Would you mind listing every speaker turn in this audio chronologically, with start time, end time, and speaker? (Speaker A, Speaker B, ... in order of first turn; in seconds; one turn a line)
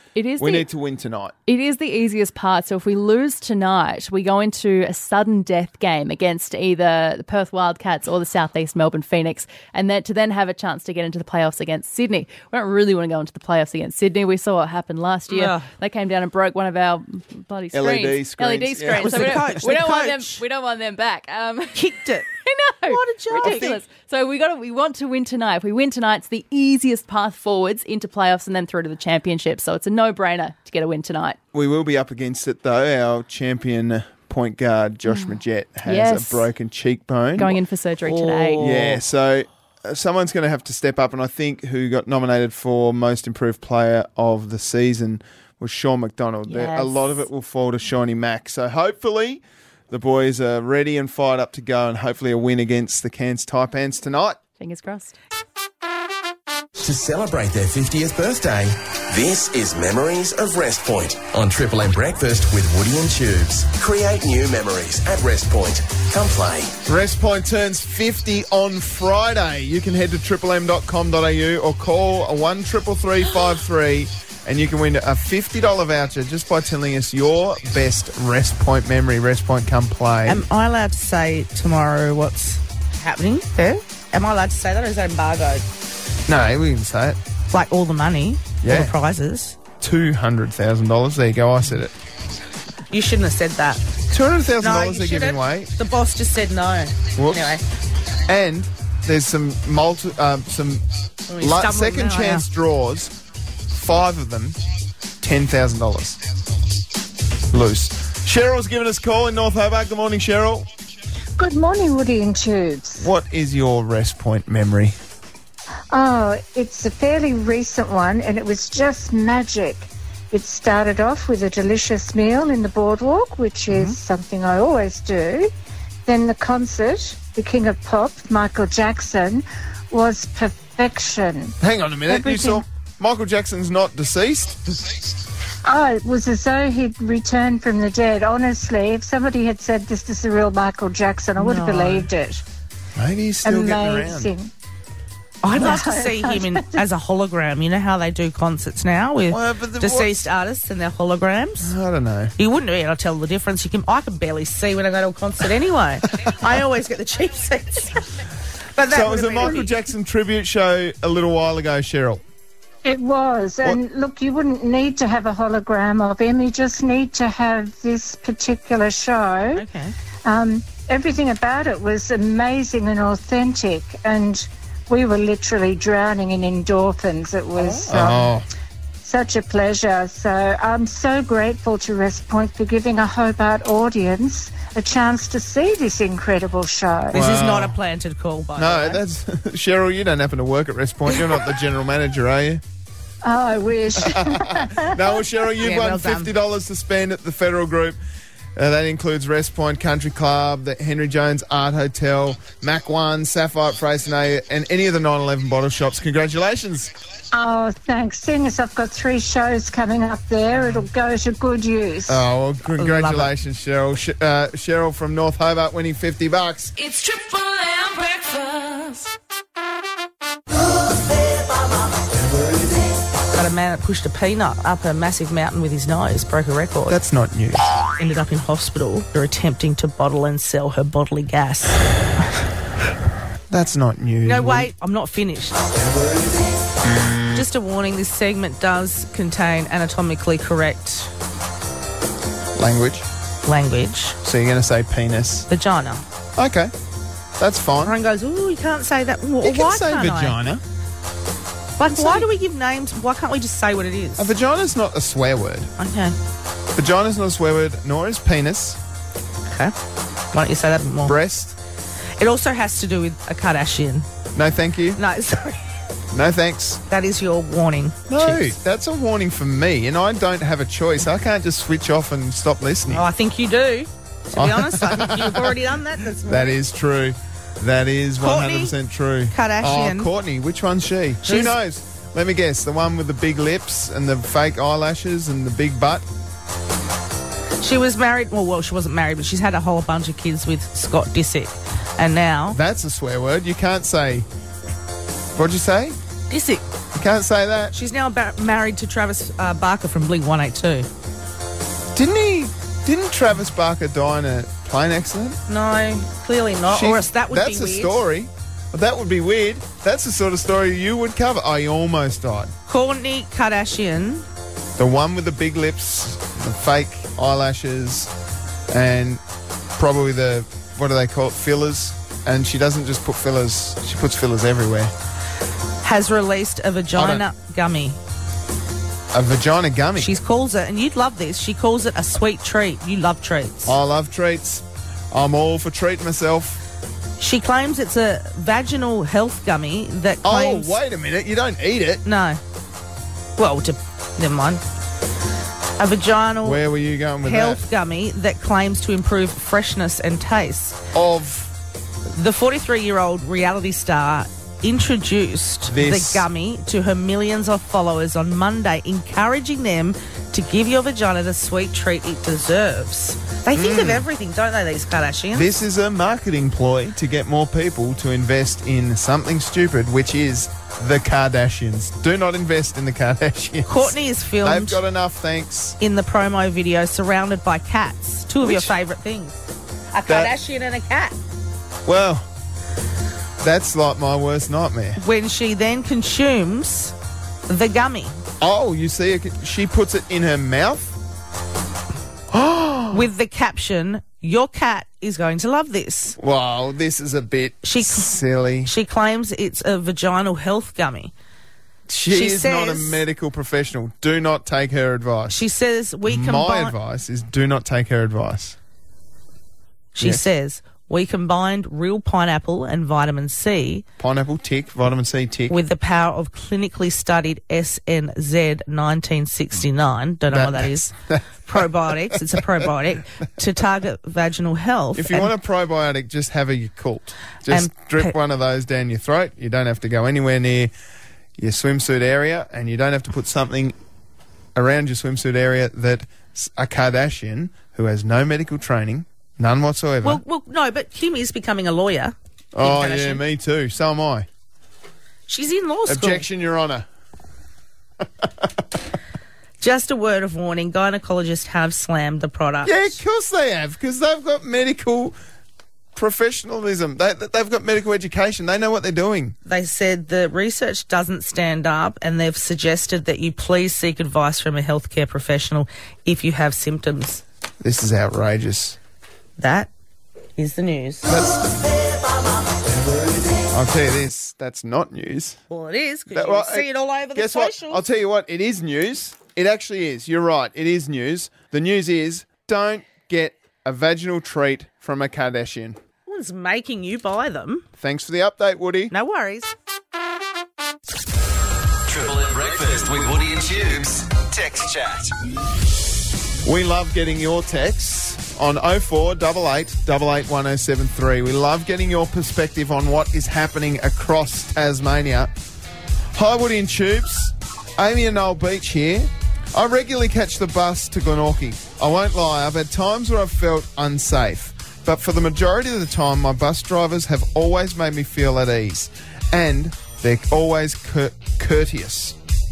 Speaker A: 0.2-0.7
Speaker B: 0.4-1.4
Speaker A: 1.4-31.4
Speaker C: 15.3-15.7
Speaker B: 17.7-19.7
Speaker C: 18.9-20.4
Speaker C: 21.8-22.2
Speaker C: 22.9-23.8
Speaker B: 23.4-23.8
Speaker B: 31.5-37.6
Speaker A: 35.9-36.5
Speaker A: 37.4-38.6
Speaker C: 38.0-39.0
Speaker B: 38.6-54.4
Speaker A: 46.5-47.2
Speaker A: 54.6-55.1
Speaker D: 56.8-66.8
Speaker B: 66.9-80.4
Speaker C: 80.3-85.6
Speaker B: 86.3-87.2
Speaker C: 87.5-89.6
Speaker B: 88.6-89.0
Speaker B: 89.8-92.0
Speaker C: 92.9-93.8
Speaker B: 94.1-95.7
Speaker C: 94.6-97.6
Speaker B: 97.2-97.5
Speaker B: 98.3-100.8
Speaker C: 101.3-102.5
Speaker B: 101.4-103.2
Speaker B: 103.7-104.6
Speaker B: 105.2-106.2
Speaker B: 107.5-110.7
Speaker E: 111.4-113.1
Speaker B: 113.0-115.0
Speaker E: 115.9-125.5
Speaker B: 123.7-124.0
Speaker E: 126.0-131.6
Speaker B: 131.6-134.8
Speaker E: 132.1-132.6
Speaker E: 135.7-142.4
Speaker C: 141.4-142.1
Speaker B: 143.0-144.3
Speaker E: 143.4-144.5
Speaker C: 145.4-151.7
Speaker E: 145.5-146.8
Speaker B: 149.3-150.1
Speaker B: 151.6-152.3
Speaker C: 152.4-158.2
Speaker C: 158.8-159.7
Speaker B: 158.9-162.2
Speaker E: 162.8-169.6
Speaker C: 169.5-169.9
Speaker E: 170.2-178.3
Speaker B: 177.6-178.5
Speaker E: 179.0-187.1
Speaker B: 187.1-187.8
Speaker C: 187.1-189.0
Speaker B: 188.6-192.6
Speaker E: 193.2-195.0
Speaker B: 194.0-198.0
Speaker C: 195.6-196.3
Speaker B: 198.6-206.9
Speaker E: 207.3-212.2
Speaker B: 212.1-216.8
Speaker C: 212.8-213.3
Speaker C: 216.9-218.8
Speaker C: 223.3-227.0
Speaker B: 226.9-227.7
Speaker C: 228.0-231.8
Speaker B: 233.5-234.7
Speaker C: 234.2-235.6
Speaker C: 237.3-241.1
Speaker B: 242.6-243.1
Speaker C: 243.5-244.2
Speaker B: 244.2-245.5
Speaker C: 245.5-246.0
Speaker B: 246.4-246.7
Speaker B: 247.4-247.9
Speaker C: 247.8-250.4
Speaker B: 249.4-250.6
Speaker C: 251.8-254.3
Speaker B: 251.9-252.3
Speaker B: 254.2-255.7
Speaker C: 255.8-256.1
Speaker B: 256.8-258.8
Speaker C: 260.3-261.1
Speaker B: 261.0-261.6
Speaker C: 262.2-264.1
Speaker B: 264.4-265.0
Speaker C: 265.0-265.6
Speaker B: 266.1-266.8
Speaker C: 266.9-268.5
Speaker B: 268.1-273.0
Speaker C: 272.9-276.5
Speaker B: 274.4-275.6
Speaker B: 276.1-286.0
Speaker C: 278.2-278.7
Speaker C: 279.3-280.1
Speaker C: 281.2-281.6
Speaker C: 287.6-292.6
Speaker B: 292.5-294.3
Speaker B: 295.4-296.0
Speaker C: 296.3-296.6
Speaker B: 296.9-297.8
Speaker C: 297.8-300.9
Speaker B: 301.9-305.4
Speaker C: 305.5-308.0
Speaker B: 306.7-312.5
Speaker C: 312.7-314.2
Speaker B: 314.8-318.1
Speaker B: 318.7-319.2
Speaker B: 319.8-324.9
Speaker C: 325.8-328.0
Speaker B: 326.9-327.2
Speaker B: 329.1-330.1
Speaker C: 330.0-333.8
Speaker B: 333.6-336.6
Speaker C: 337.2-340.8
Speaker B: 340.2-342.0
Speaker C: 342.0-342.4
Speaker C: 343.4-344.6
Speaker C: 345.8-346.6
Speaker B: 346.4-347.6
Speaker C: 347.2-350.8
Speaker B: 350.9-351.5
Speaker C: 352.1-365.5
Speaker B: 355.7-356.2
Speaker B: 363.5-364.1
Speaker B: 365.3-375.8
Speaker C: 373.7-374.8
Speaker C: 375.8-381.1
Speaker B: 378.4-378.7
Speaker B: 380.1-380.3
Speaker B: 381.9-382.3
Speaker B: 383.4-385.0
Speaker C: 385.0-386.9
Speaker C: 387.5-388.1
Speaker B: 388.4-391.0
Speaker B: 392.3-393.1
Speaker C: 392.9-396.1
Speaker B: 396.2-398.7
Speaker C: 397.6-398.1
Speaker C: 398.6-401.1
Speaker B: 401.9-405.5
Speaker C: 402.1-403.0
Speaker C: 405.3-406.7
Speaker B: 406.1-408.6
Speaker C: 409.9-413.8
Speaker B: 410.0-410.2
Speaker B: 414.0-415.6
Speaker C: 415.5-420.9
Speaker B: 420.3-422.4
Speaker C: 421.5-425.3
Speaker B: 424.9-430.7
Speaker C: 427.5-428.1
Speaker B: 431.4-433.8
Speaker B: 434.5-440.2
Speaker C: 440.0-443.2
Speaker B: 442.5-444.3
Speaker C: 445.3-446.2
Speaker B: 445.9-446.9
Speaker B: 448.2-448.5
Speaker C: 449.6-453.0
Speaker B: 452.6-455.1
Speaker B: 455.9-459.4
Speaker C: 459.5-467.2
Speaker B: 467.6-468.8
Speaker C: 469.4-469.7
Speaker C: 470.4-471.1
Speaker B: 471.1-471.4
Speaker B: 473.5-475.4
Speaker C: 475.5-477.8
Speaker B: 476.1-485.8
Speaker C: 486.1-487.6
Speaker B: 487.8-488.9
Speaker C: 488.9-489.5
Speaker D: 491.9-495.1
Speaker B: 496.4-505.3
Speaker B: 506.1-522.2